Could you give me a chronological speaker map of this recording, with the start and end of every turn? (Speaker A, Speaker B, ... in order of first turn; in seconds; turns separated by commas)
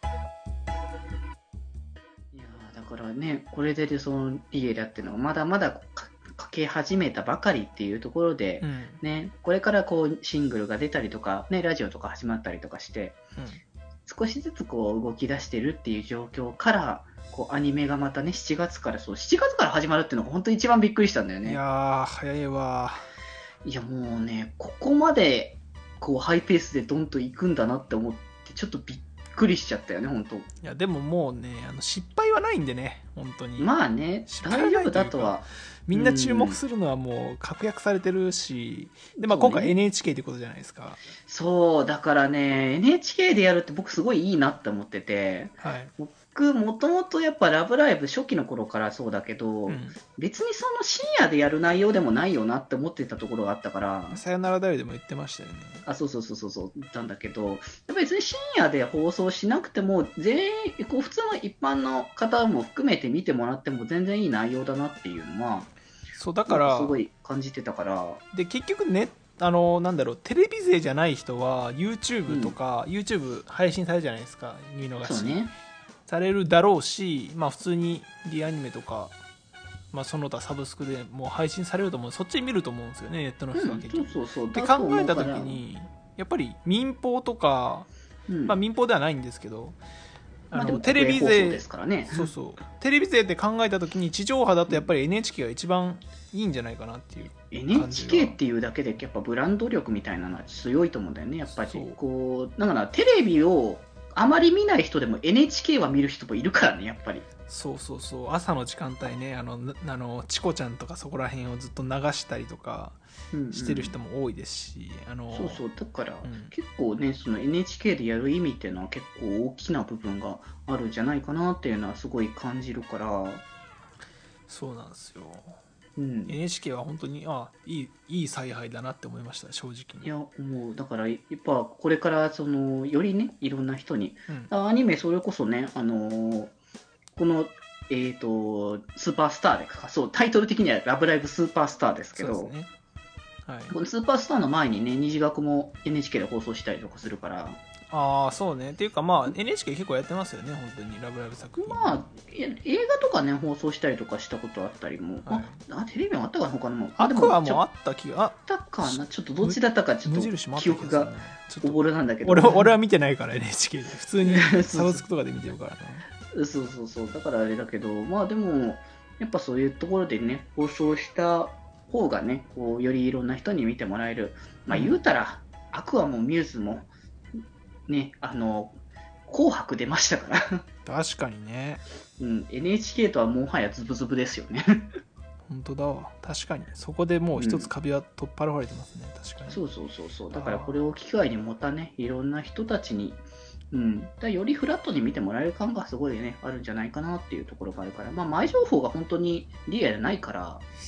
Speaker A: 2.3-13.2, Speaker B: 8.6-9.0, Speaker A: 14.1-21.6, Speaker B: 21.4-23.1, Speaker A: 23.6-30.5, Speaker B: 30.6-33.7, Speaker A: 33.6-36.6, Speaker B: 34.3-41.0, Speaker A: 39.3-39.8, Speaker A: 41.3-54.2, Speaker B: 45.6-45.9, Speaker B: 49.7-50.0, Speaker B: 54.1-55.9, Speaker A: 55.9-65.7, Speaker B: 66.2-67.0, Speaker A: 66.5-68.2, Speaker B: 68.3-75.4, Speaker A: 72.3-72.6, Speaker A: 75.0-75.5, Speaker B: 76.1-79.2, Speaker B: 79.9-87.9, Speaker A: 83.5-85.6, Speaker A: 88.3-88.6, Speaker B: 88.5-89.8, Speaker B: 90.5-98.4, Speaker A: 90.5-92.3, Speaker A: 97.5-107.3, Speaker B: 101.6-102.0, Speaker B: 107.5-113.0, Speaker A: 113.3-114.0, Speaker B: 113.5-115.6, Speaker A: 115.3-123.4, Speaker B: 116.2-116.5, Speaker B: 124.5-125.6, Speaker A: 126.0-126.4, Speaker B: 126.3-130.1, Speaker A: 130.0-136.5, Speaker A: 137.1-142.5, Speaker B: 142.1-142.7, Speaker B: 143.5-143.7, Speaker A: 143.7-147.6, Speaker B: 147.9-152.0, Speaker A: 151.6-157.6, Speaker B: 155.2-155.6, Speaker B: 157.0-166.1, Speaker A: 158.5-162.7, Speaker A: 164.2-165.0, Speaker A: 166.3-176.9, Speaker B: 174.7-175.0, Speaker A: 177.9-180.6, Speaker B: 180.8-181.8, Speaker A: 182.2-184.9, Speaker B: 185.5-189.6, Speaker A: 187.4-187.7, Speaker A: 189.5-200.6, Speaker B: 190.3-190.8